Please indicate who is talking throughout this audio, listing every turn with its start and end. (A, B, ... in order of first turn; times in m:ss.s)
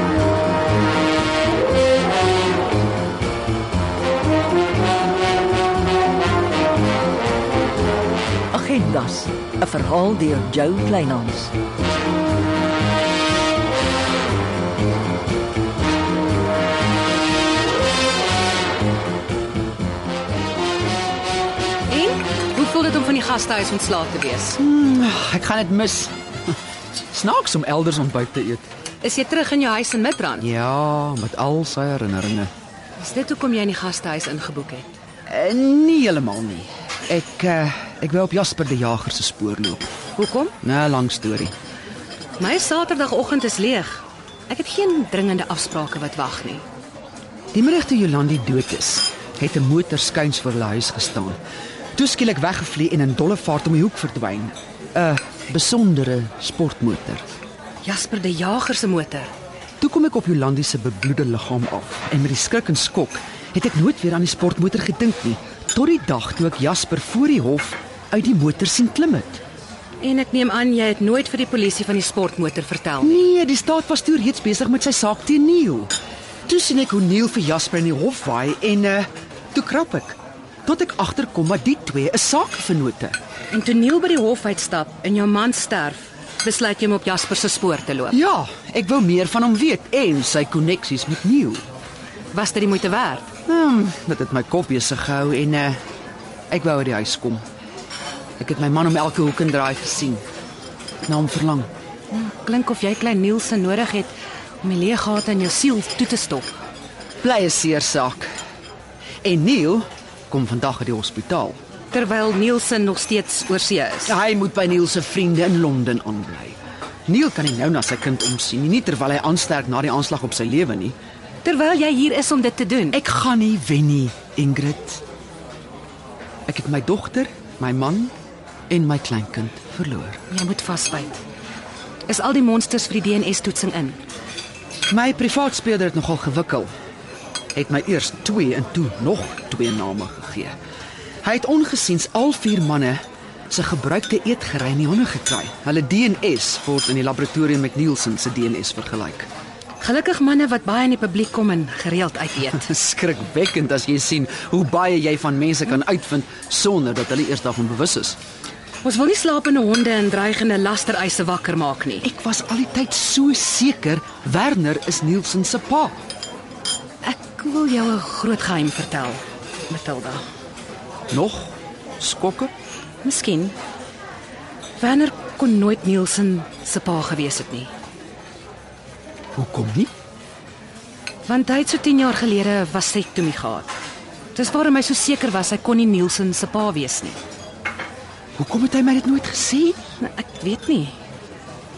0:08.5-0:11.5 A
0:21.9-0:24.6 B
0:24.6-0:26.2 C
0:27.0-0:28.6 C
0:29.0-0:30.5 B
0:30.4-0:32.5 C
0:33.0-0:34.9 B
0:35.3-0:39.9 C
0:40.2-0:40.6 B
0:40.6-0:41.5 C
0:42.4-0:46.6 B
0:47.5-0:51.4 C
0:52.0-0:57.2 C
0:57.8-0:59.3 B
0:59.8-1:09.4 C
1:10.0-1:13.2 B
1:13.0-1:15.9 C
1:16.5-1:23.2 C
1:23.5-1:28.2 B
1:28.1-1:31.6 C
1:32.3-1:33.3 B
1:33.5-1:35.8 C
1:36.5-1:37.4 C
1:38.4-1:40.2 C
1:41.1-1:41.7 C
1:42.1-1:46.5 B
1:47.2-1:48.3 C
1:49.2-1:51.6 C
1:51.9-1:54.2 B
1:54.1-2:01.0 C
2:01.4-2:03.0 B
2:02.9-2:05.0 C
2:06.5-2:08.1 C
2:08.7-2:10.2 C
2:10.3-2:11.2 B
2:12.1-2:14.0 B
2:14.9-2:16.7 C
2:17.6-2:20.5 C
2:21.2-2:29.3 C
2:29.8-2:32.7 B
2:32.6-2:38.2 C
2:38.8-2:42.1 B
2:42.0-2:46.0 C
2:47.0-2:50.2 B
2:51.1-2:52.5 C
2:53.0-2:53.6 B
2:54.8-2:57.7 B
2:59.4-2:59.9 C
3:01.3-3:03.7 B
3:04.3-3:07.2 B
3:08.4-3:09.8 C
3:10.0-3:11.0 B